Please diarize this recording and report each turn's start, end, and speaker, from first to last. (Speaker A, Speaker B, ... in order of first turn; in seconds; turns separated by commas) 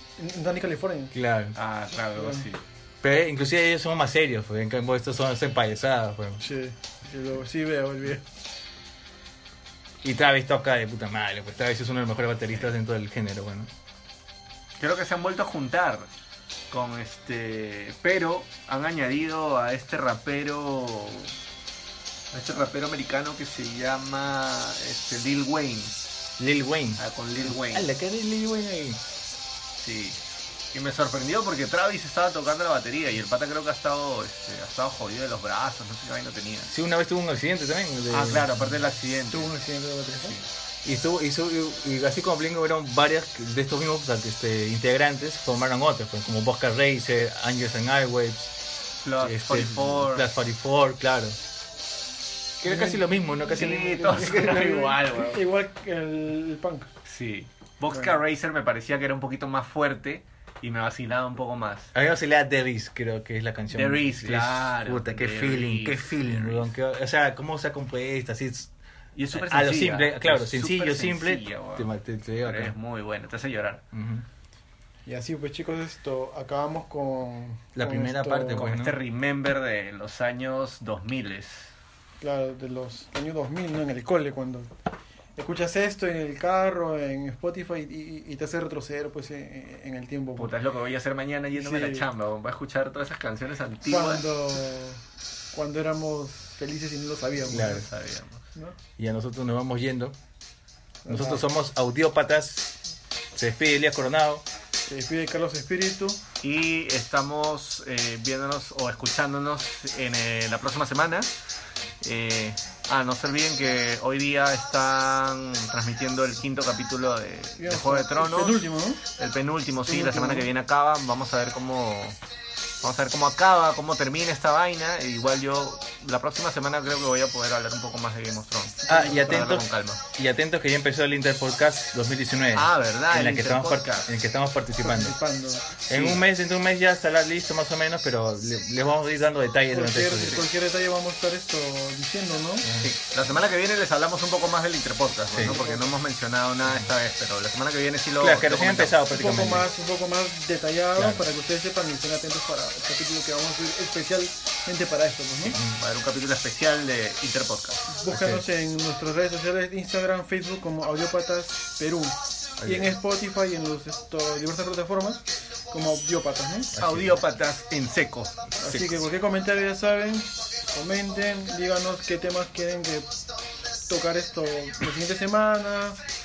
Speaker A: 0.2-1.1, Speaker B: 1.1-1.6, Speaker C: 1.6-2.6, Speaker A: 2.1-2.5, Speaker B: 3.0-6.4, Speaker A: 6.4-8.2, Speaker B: 10.0-13.7, Speaker C: 14.8-16.1, Speaker C: 16.7-21.3, Speaker C: 22.3-26.0, Speaker B: 26.4-29.0, Speaker C: 27.0-27.9, Speaker C: 29.8-30.2, Speaker C: 30.7-36.7, Speaker B: 36.7-38.5, Speaker C: 38.1-39.5, Speaker A: 39.3-40.4, Speaker B: 40.8-48.5, Speaker C: 49.0-50.3, Speaker B: 49.2-51.4, Speaker B: 52.6-54.8, Speaker A: 52.6-56.9, Speaker C: 53.5-55.4, Speaker C: 57.0-61.9, Speaker B: 61.9-68.7, Speaker C: 63.7-66.7, Speaker C: 69.1-73.8, Speaker B: 69.3-72.7, Speaker B: 73.9-74.2, Speaker A: 75.0-78.7, Speaker B: 77.8-79.0, Speaker C: 78.5-81.7, Speaker A: 82.2-84.7, Speaker A: 85.3-90.5, Speaker C: 90.4-94.3, Speaker A: 91.5-92.1, Speaker A: 93.9-95.0, Speaker A: 95.5-97.9, Speaker B: 97.5-97.9, Speaker C: 97.5-98.5, Speaker B: 99.0-100.2, Speaker A: 101.0-101.4, Speaker B: 101.1-102.7, Speaker B: 103.3-104.4, Speaker A: 104.9-106.2, Speaker C: 106.4-111.3, Speaker C: 112.0-122.2, Speaker A: 117.6-119.0, Speaker A: 119.8-120.5, Speaker C: 122.8-130.0, Speaker A: 128.9-129.6, Speaker B: 128.9-135.2, Speaker C: 132.5-134.1, Speaker A: 134.8-135.7, Speaker B: 135.9-140.4, Speaker C: 135.9-136.2, Speaker A: 139.7-142.7, Speaker B: 142.6-142.9, Speaker C: 142.8-149.0, Speaker A: 145.4-145.9, Speaker B: 148.2-149.7, Speaker A: 149.1-155.6, Speaker B: 150.9-151.2, Speaker B: 155.5-155.8, Speaker C: 155.6-157.9, Speaker A: 157.9-166.7, Speaker B: 158.1-158.4, Speaker B: 162.6-162.9, Speaker B: 166.7-167.2, Speaker C: 166.8-168.5, Speaker A: 168.6-173.1, Speaker A: 173.9-176.0